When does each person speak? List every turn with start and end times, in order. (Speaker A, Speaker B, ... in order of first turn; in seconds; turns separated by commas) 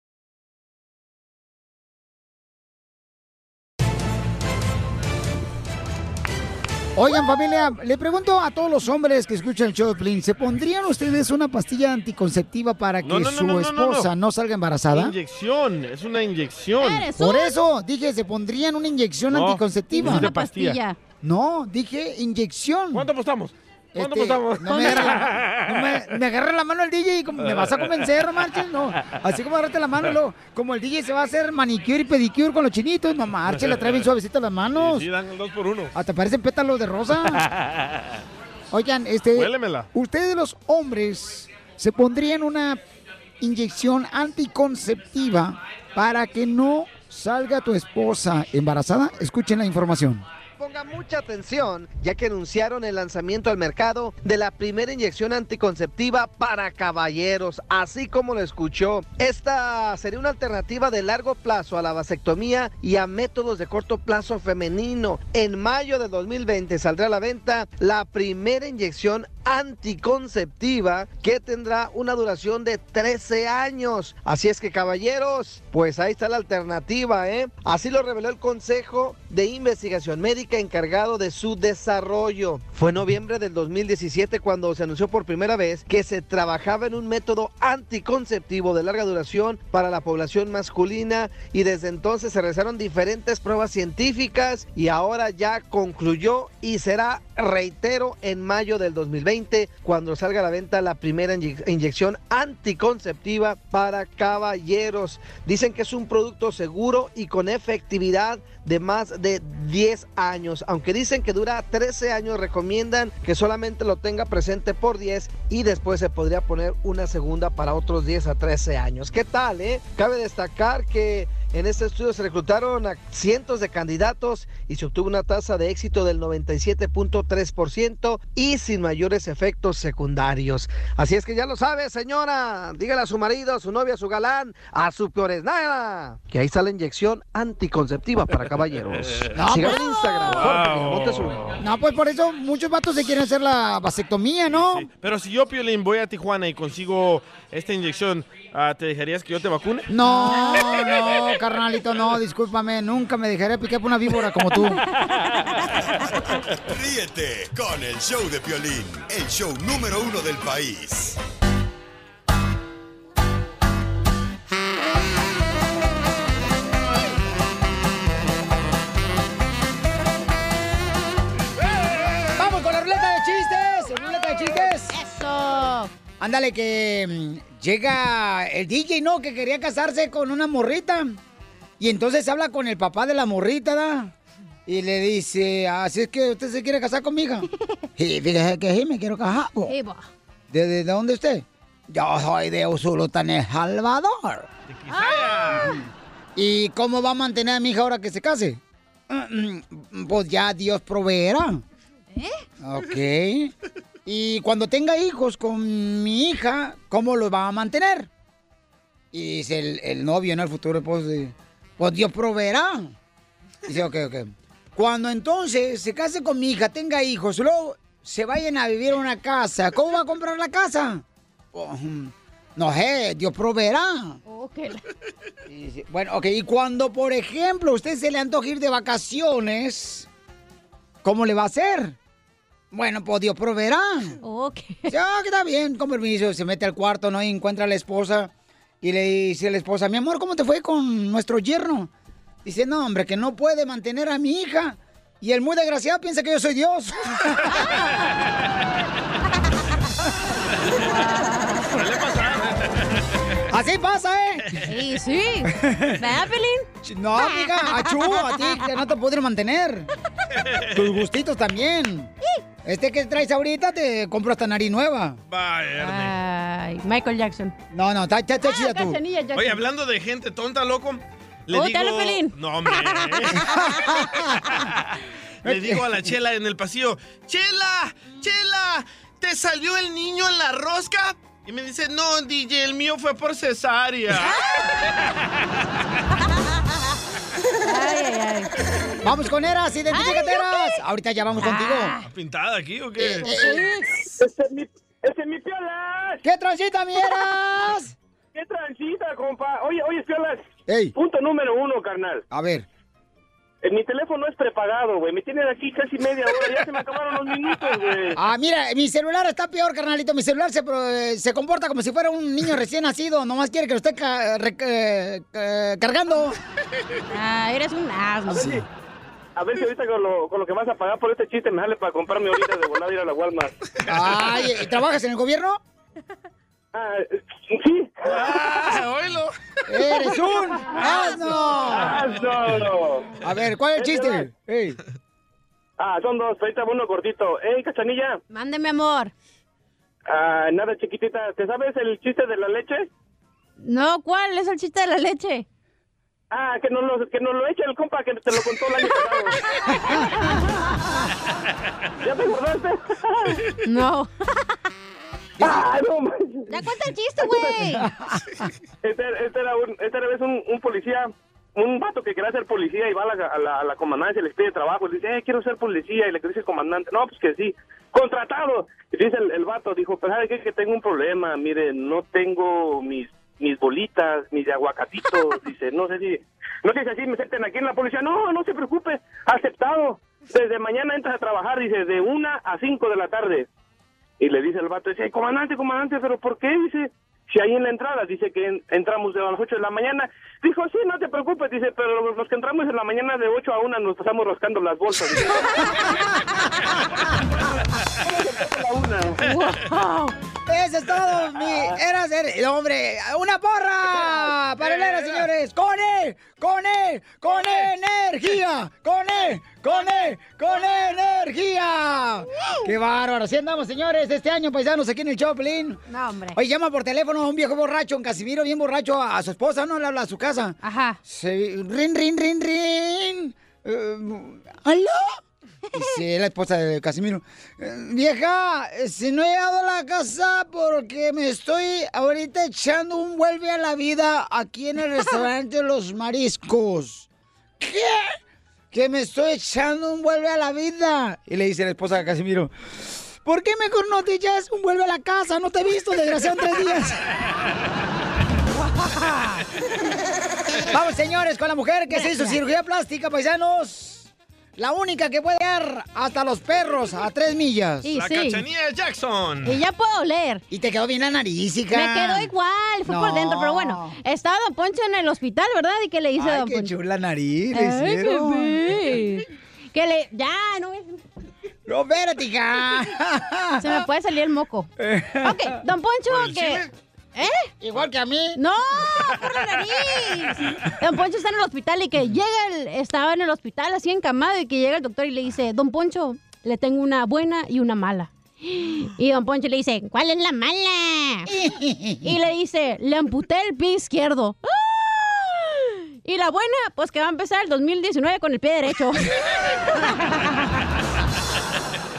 Speaker A: 6.9-15.1, Speaker B: 13.0-14.1, Speaker B: 14.9-17.0, Speaker C: 16.8-17.6, Speaker A: 17.1-20.3, Speaker B: 19.3-20.8, Speaker C: 19.9-21.0, Speaker A: 21.2-23.1, Speaker B: 22.9-26.0, Speaker A: 23.9-35.1, Speaker C: 24.7-25.1, Speaker B: 27.4-28.0, Speaker B: 33.5-34.1, Speaker B: 34.7-35.9, Speaker A: 35.9-37.4, Speaker B: 37.5-38.2, Speaker A: 38.7-42.8, Speaker B: 39.3-39.9, Speaker A: 43.4-50.2, Speaker D: 50.6-141.4, Speaker A: 139.3-139.8, Speaker B: 140.3-141.6, Speaker A: 141.6-144.9, Speaker B: 144.5-149.9, Speaker A: 149.9-154.8, Speaker C: 150.0-150.8, Speaker E: 156.0-161.2, Speaker A: 172.3-175.0, Speaker C: 174.9-175.9, Speaker A: 176.2-181.2, Speaker A: 181.8-184.1, Speaker A: 184.7-189.7, Speaker C: 189.7-190.1, Speaker A: 190.5-194.5, Speaker B: 194.7-195.8, Speaker C: 194.9-195.7, Speaker A: 196.3-201.6, Speaker C: 202.1-202.4, Speaker A: 202.6-203.5, Speaker A: 204.1-208.1, Speaker A: 209.1-212.9, Speaker A: 213.6-224.2, Speaker C: 224.3-224.8, Speaker A: 225.5-230.1, Speaker A: 231.0-232.0, Speaker A: 232.7-234.2, Speaker C: 234.2-234.9, Speaker A: 234.9-241.9, Speaker A: 242.4-247.5, Speaker C: 250.7-251.8, Speaker B: 251.7-253.0, Speaker A: 253.5-254.6, Speaker C: 254.7-256.7, Speaker A: 255.5-256.0, Speaker A: 256.8-259.9, Speaker C: 257.2-258.6, Speaker B: 260.4-260.9, Speaker A: 260.7-262.1, Speaker A: 262.6-265.2, Speaker B: 265.3-266.1, Speaker C: 265.8-267.5, Speaker A: 267.7-269.0, Speaker C: 268.4-269.6, Speaker B: 269.3-273.8, Speaker C: 271.5-273.7, Speaker A: 273.5-274.3, Speaker A: 275.4-275.9, Speaker B: 275.4-284.4, Speaker C: 287.6-288.5, Speaker A: 289.0-292.0, Speaker C: 289.9-290.8, Speaker C: 291.4-292.1, Speaker B: 292.1-293.4, Speaker A: 293.0-293.7, Speaker C: 293.2-293.8, Speaker F: 294.2-296.2, Speaker A: 296.2-297.9, Speaker F: 298.3-300.4, Speaker A: 300.7-300.9, Speaker F: 300.9-302.2, Speaker A: 302.3-302.6, Speaker F: 303.6-308.2, Speaker A: 308.1-316.4, Speaker C: 317.1-318.6, Speaker A: 318.3-318.6, Speaker F: 318.3-318.6, Speaker F: 319.4-323.5, Speaker A: 323.9-325.6, Speaker F: 326.7-328.4, Speaker B: 328.1-329.4, Speaker A: 329.7-332.0, Speaker C: 330.8-331.6, Speaker F: 331.7-333.1, Speaker B: 331.7-332.7, Speaker A: 333.2-334.8, Speaker F: 333.8-334.3, Speaker F: 335.8-338.2, Speaker C: 338.3-339.1, Speaker F: 340.1-342.9, Speaker C: 343.6-345.4, Speaker F: 346.3-349.4, Speaker C: 349.6-350.4, Speaker F: 352.0-353.4, Speaker C: 353.6-354.5, Speaker F: 355.4-356.5, Speaker C: 356.5-357.9, Speaker A: 357.6-358.4, Speaker F: 358.8-383.4, Speaker F: 384.2-395.7, Speaker F: 398.0-399.2, Speaker C: 399.2-400.1, Speaker A: 400.5-415.8, Speaker F: 401.4-401.7, Speaker F: 404.0-404.2, Speaker B: 404.6-405.2, Speaker C: 409.7-411.0, Speaker C: 415.9-416.4, Speaker A: 416.3-425.2, Speaker C: 420.6-421.0, Speaker A: 425.7-437.1, Speaker A: 437.6-438.2, Speaker A: 438.7-447.1, Speaker C: 448.8-449.2, Speaker A: 450.7-457.9, Speaker C: 451.9-452.4, Speaker C: 457.8-458.4, Speaker B: 457.9-459.6, Speaker C: 459.4-460.4, Speaker A: 460.5-462.3, Speaker C: 461.7-466.7, Speaker A: 462.9-463.9, Speaker A: 466.1-469.0, Speaker C: 467.5-471.0, Speaker A: 471.6-473.8, Speaker C: 473.6-474.7, Speaker A: 474.8-475.6, Speaker C: 475.2-477.5, Speaker B: 476.1-476.7, Speaker A: 477.6-478.4, Speaker C: 478.4-491.3, Speaker A: 491.3-492.1, Speaker C: 492.0-499.2, Speaker C: 499.7-500.4